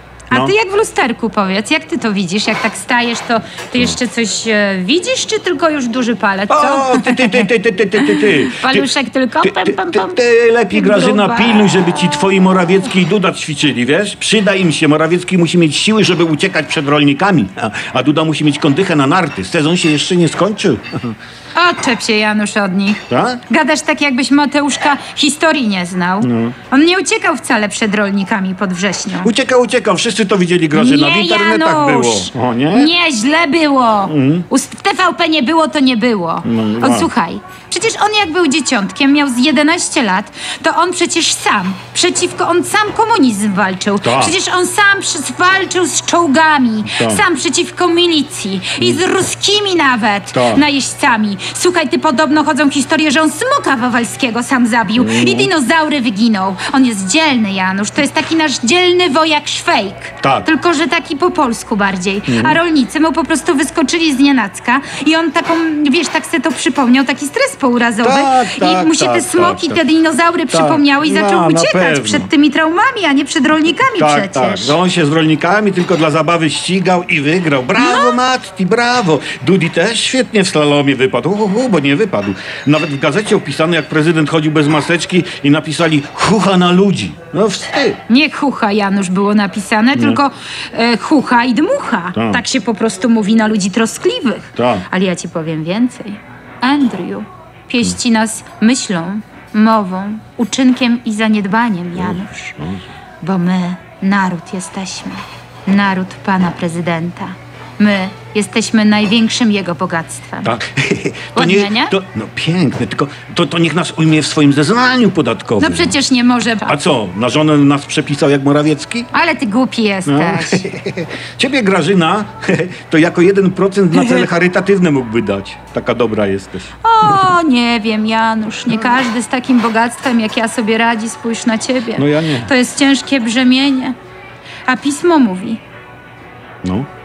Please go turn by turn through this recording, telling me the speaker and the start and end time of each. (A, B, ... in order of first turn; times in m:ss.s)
0:00.3-0:11.8 A
0:06.5-0:21.1 B
0:21.6-0:29.3 A
0:23.1-0:23.4 B
0:26.2-0:26.6 B
0:29.2-0:32.9 B
0:30.7-1:14.8 A
0:34.0-0:34.4 B
0:36.4-0:37.1 B
0:44.0-0:44.4 B
0:46.8-0:47.2 B
0:50.3-0:50.6 B
0:54.9-0:55.5 B
1:00.2-1:00.5 B
1:02.3-1:02.6 B
1:08.0-1:09.8 B
1:10.5-1:12.3 B
1:14.0-1:28.0 B
1:17.8-1:18.2 A
1:28.1-1:42.5 A
1:29.9-1:30.2 B
1:32.1-1:32.4 B
1:34.6-1:34.9 B
1:42.0-1:42.9 B
1:43.2-1:50.5 A
1:50.4-1:56.0 B
1:51.4-1:52.0 A
1:55.6-1:56.8 A
1:56.6-1:59.1 B
1:59.1-2:00.6 A
2:00.0-2:07.3 B
2:03.9-2:04.3 A
2:06.8-2:14.0 A
2:12.0-2:12.5 B
2:14.6-2:15.6 A
2:16.6-2:16.9 B